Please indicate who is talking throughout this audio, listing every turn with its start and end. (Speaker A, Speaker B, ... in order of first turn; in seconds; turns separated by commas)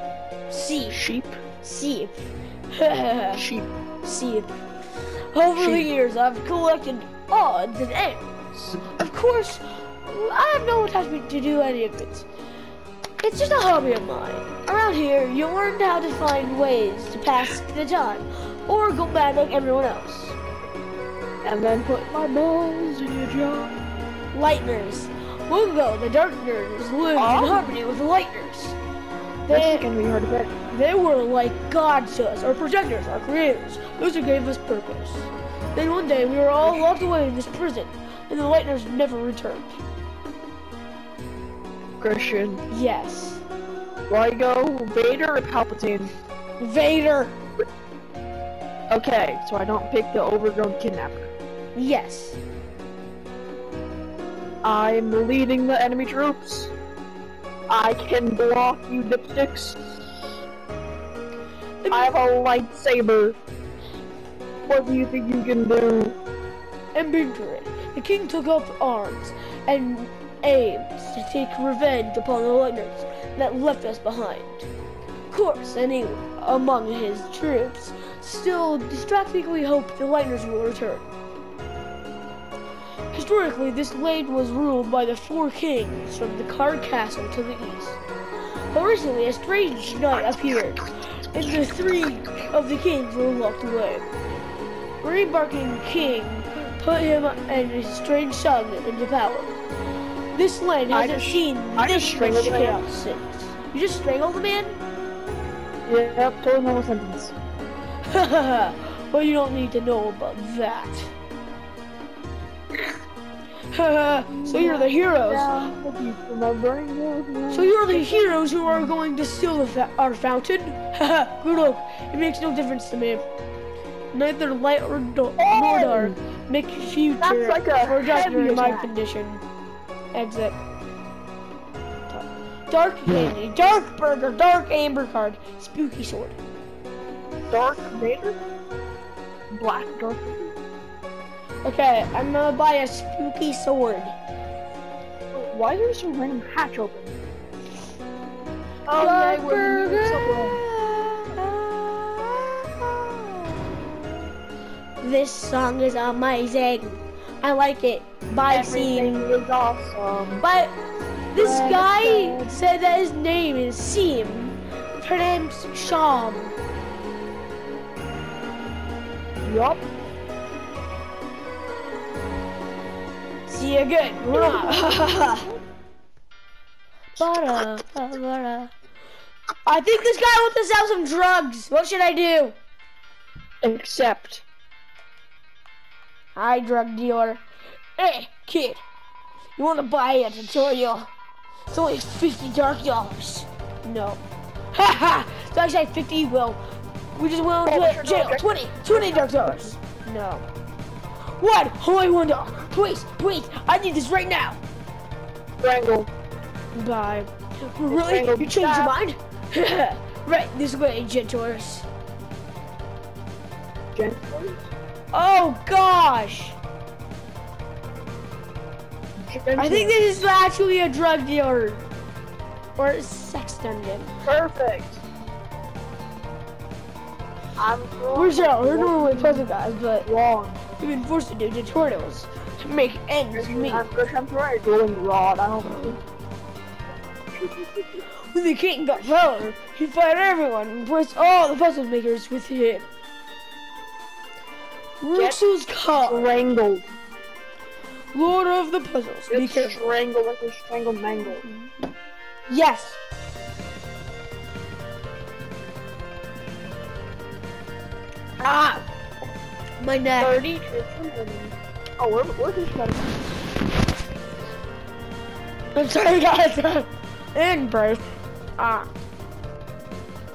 Speaker A: 0.5-1.0, Speaker B: 0.9-1.4, Speaker A: 1.6-3.4, Speaker B: 3.3-3.7, Speaker A: 4.0-4.6, Speaker A: 5.3-8.3, Speaker B: 5.6-5.9, Speaker B: 8.5-8.8, Speaker A: 8.8-12.3, Speaker A: 13.2-20.4, Speaker B: 21.4-23.8, Speaker A: 24.3-28.8, Speaker B: 27.2-27.7, Speaker A: 29.5-29.9, Speaker B: 29.5-30.5, Speaker A: 30.7-39.8, Speaker B: 36.6-36.9, Speaker B: 42.0-42.6, Speaker A: 42.7-43.4, Speaker B: 44.1-46.1, Speaker A: 46.6-47.4, Speaker B: 48.9-51.3, Speaker A: 51.8-52.4, Speaker B: 54.6-56.7, Speaker B: 57.7-60.2, Speaker A: 61.8-62.1, Speaker B: 61.9-63.4, Speaker B: 64.7-66.2, Speaker A: 67.0-74.7, Speaker A: 75.3-81.1, Speaker A: 83.1-88.0, Speaker A: 88.7-94.1, Speaker B: 90.1-91.7, Speaker A: 95.0-99.6, Speaker A: 100.3-104.8, Speaker B: 100.9-102.9, Speaker B: 105.9-107.4, Speaker A: 108.0-111.1, Speaker A: 113.7-115.5, Speaker B: 114.3-118.9, Speaker A: 117.5-123.2, Speaker A: 124.1-129.4, Speaker B: 125.4-126.2, Speaker B: 127.2-128.9, Speaker A: 130.1-130.6, Speaker A: 132.1-136.4, Speaker B: 137.5-138.4, Speaker B: 139.5-140.6, Speaker A: 141.6-144.2, Speaker B: 145.3-147.2, Speaker B: 148.9-150.6, Speaker A: 149.0-154.3, Speaker A: 155.0-159.3, Speaker B: 158.5-160.4, Speaker A: 160.4-160.8, Speaker A: 161.3-166.6, Speaker B: 161.3-162.6, Speaker B: 169.4-169.9, Speaker A: 173.5-175.5, Speaker B: 174.3-175.6, Speaker A: 177.2-178.7, Speaker A: 179.7-182.6, Speaker B: 183.6-184.4, Speaker A: 186.3-187.4, Speaker A: 188.0-188.8, Speaker A: 189.6-191.1, Speaker A: 191.7-194.2, Speaker A: 194.7-196.6, Speaker A: 197.2-200.4, Speaker B: 197.7-199.8, Speaker A: 201.4-204.6, Speaker B: 205.6-206.1, Speaker A: 206.8-211.9, Speaker B: 207.9-208.9, Speaker B: 213.9-214.7, Speaker A: 215.1-216.6, Speaker B: 219.2-220.3, Speaker A: 219.6-221.8, Speaker A: 222.8-224.1, Speaker B: 224.2-225.0, Speaker B: 227.6-229.5, Speaker A: 228.2-230.1, Speaker B: 230.1-230.7, Speaker A: 230.8-233.8, Speaker B: 233.3-236.0, Speaker B: 237.3-238.0, Speaker A: 238.3-242.9, Speaker A: 245.0-246.3, Speaker B: 245.1-245.4, Speaker B: 246.1-246.9, Speaker A: 248.1-249.9, Speaker B: 249.3-251.5, Speaker A: 252.5-253.0, Speaker A: 258.4-258.8, Speaker A: 259.8-260.4, Speaker B: 260.2-263.4, Speaker A: 265.7-268.0, Speaker A: 268.6-268.9